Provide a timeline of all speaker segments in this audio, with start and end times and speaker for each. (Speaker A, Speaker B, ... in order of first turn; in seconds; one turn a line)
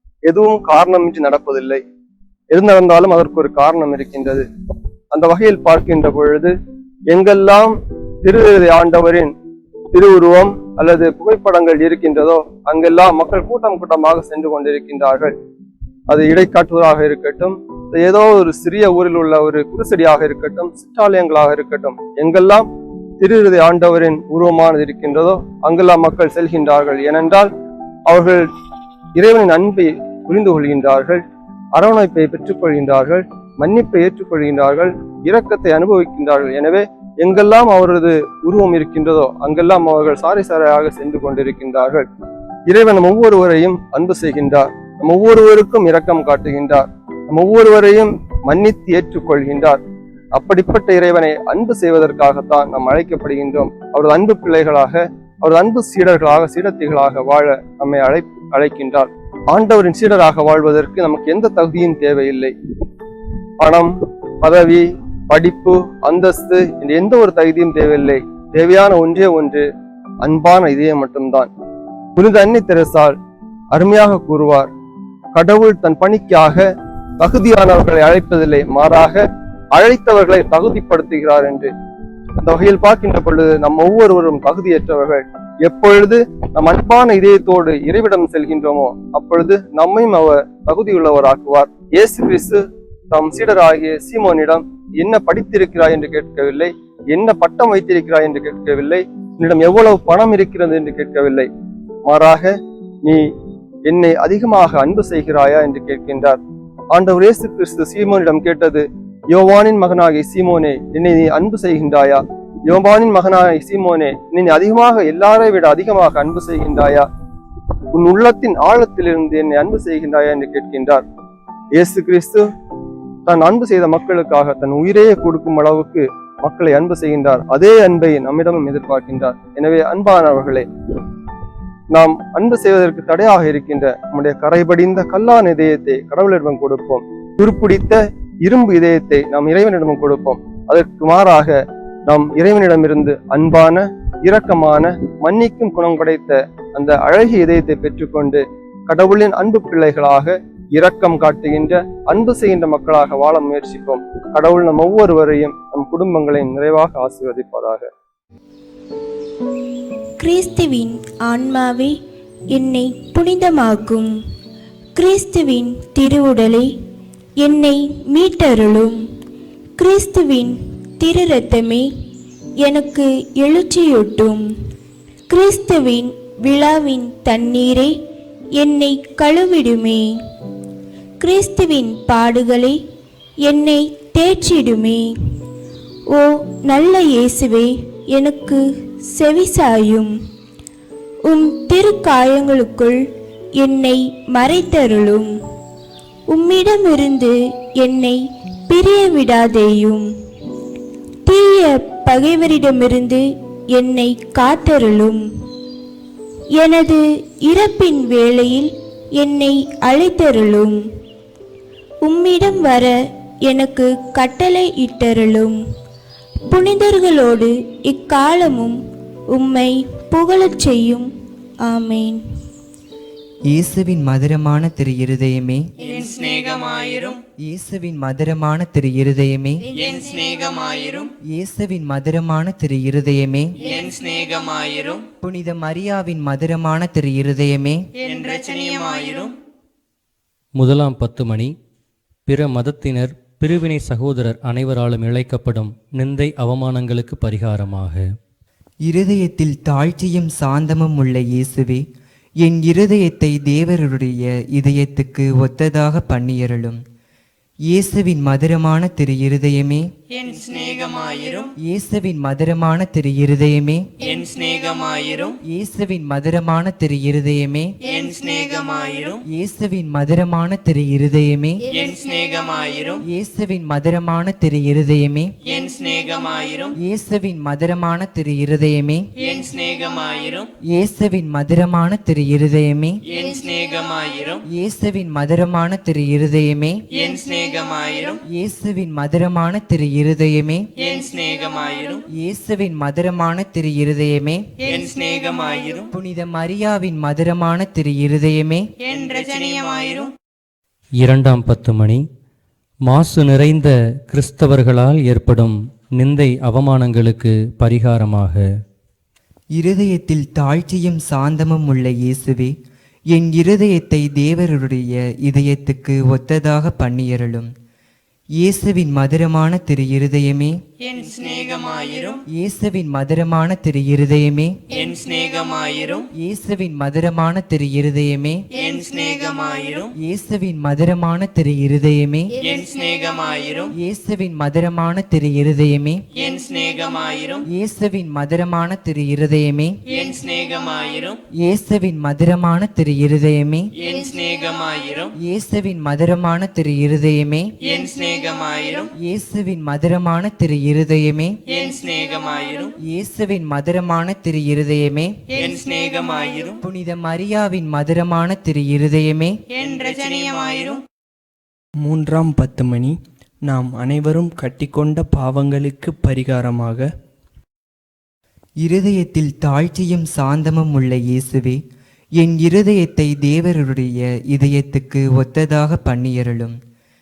Speaker A: 0.2-1.8
Speaker A: 2.5-4.4
Speaker A: 5.1-6.5
Speaker A: 7.1-7.7
Speaker A: 8.2-9.3
Speaker A: 9.9-15.3
Speaker A: 16.1-22.6
Speaker A: 23.2-27.5
Speaker A: 28.1-28.4
Speaker A: 29.2-31.2
Speaker A: 31.7-42.0
Speaker A: 42.7-49.8
Speaker A: 50.3-62.5
Speaker A: 63.6-63.9
Speaker A: 64.4-69.6
Speaker A: 70.2-71.5
Speaker A: 72.2-73.1
Speaker A: 73.7-74.7
Speaker A: 75.3-76.6
Speaker A: 77.2-79.2
Speaker A: 79.7-81.7
Speaker A: 82.4-92.6
Speaker A: 93.1-101.5
Speaker A: 102.1-102.5
Speaker A: 103.8-106.4
Speaker A: 106.9-117.0
Speaker A: 117.9-121.0
Speaker A: 121.7-122.4
Speaker A: 123.2-130.7
Speaker A: 131.9-141.5
Speaker A: 142.1-157.9
Speaker B: 160.2-161.9
Speaker B: 162.5-164.1
Speaker B: 164.9-166.7
Speaker B: 167.4-169.0
Speaker B: 169.8-171.9
Speaker B: 172.6-174.4
Speaker B: 175.3-177.9
Speaker B: 178.6-180.1
Speaker B: 181.2-182.8
Speaker B: 183.4-185.1
Speaker B: 186.1-190.1
Speaker B: 191.3-193.0
Speaker B: 193.6-195.3
Speaker B: 196.3-200.1
Speaker B: 201.3-205.2
Speaker B: 206.6-210.8
Speaker B: 212.0-215.6
Speaker B: 216.5-218.8
Speaker B: 219.3-221.1
Speaker B: 221.6-222.2
Speaker C: 223.5-225.7
Speaker D: 225.8-227.2
Speaker C: 227.4-229.7
Speaker D: 229.8-231.1
Speaker C: 231.2-233.6
Speaker D: 233.7-235.0
Speaker C: 235.2-237.8
Speaker D: 238.1-239.3
Speaker E: 240.6-241.5
Speaker E: 242.3-248.0
Speaker C: 248.9-251.8
Speaker C: 252.4-256.8
Speaker C: 257.7-259.8
Speaker D: 260.2-261.5
Speaker C: 261.6-263.9
Speaker D: 264.1-265.3
Speaker C: 265.4-267.7
Speaker D: 267.9-269.2
Speaker C: 269.3-271.7
Speaker D: 271.8-273.0
Speaker C: 273.0-275.3
Speaker D: 275.5-276.7
Speaker C: 276.8-279.0
Speaker D: 279.2-280.4
Speaker C: 280.7-283.0
Speaker D: 283.1-284.4
Speaker C: 284.5-286.8
Speaker D: 287.0-288.2
Speaker C: 288.2-290.7
Speaker D: 290.8-292.0
Speaker C: 292.1-294.4
Speaker D: 294.6-295.9
Speaker C: 295.9-298.6
Speaker D: 298.9-300.1
Speaker E: 301.0-302.0
Speaker E: 302.9-308.4
Speaker C: 309.6-312.5
Speaker C: 313.1-317.5
Speaker C: 318.4-320.6
Speaker D: 320.9-322.2
Speaker C: 322.3-324.5
Speaker D: 324.8-326.0
Speaker C: 326.1-328.4
Speaker D: 328.6-329.9
Speaker C: 329.9-332.4
Speaker D: 332.5-333.6
Speaker C: 333.7-336.0
Speaker D: 336.2-337.4
Speaker C: 337.4-339.8
Speaker D: 339.9-341.1
Speaker C: 341.4-343.7
Speaker D: 343.8-345.1
Speaker C: 345.2-347.5
Speaker D: 347.6-348.9
Speaker C: 348.9-351.4
Speaker D: 351.5-352.7
Speaker C: 352.8-355.1
Speaker D: 355.4-356.5
Speaker C: 356.6-359.4
Speaker D: 359.6-360.8
Speaker F: 361.8-366.9
Speaker C: 368.6-371.6
Speaker C: 372.2-376.6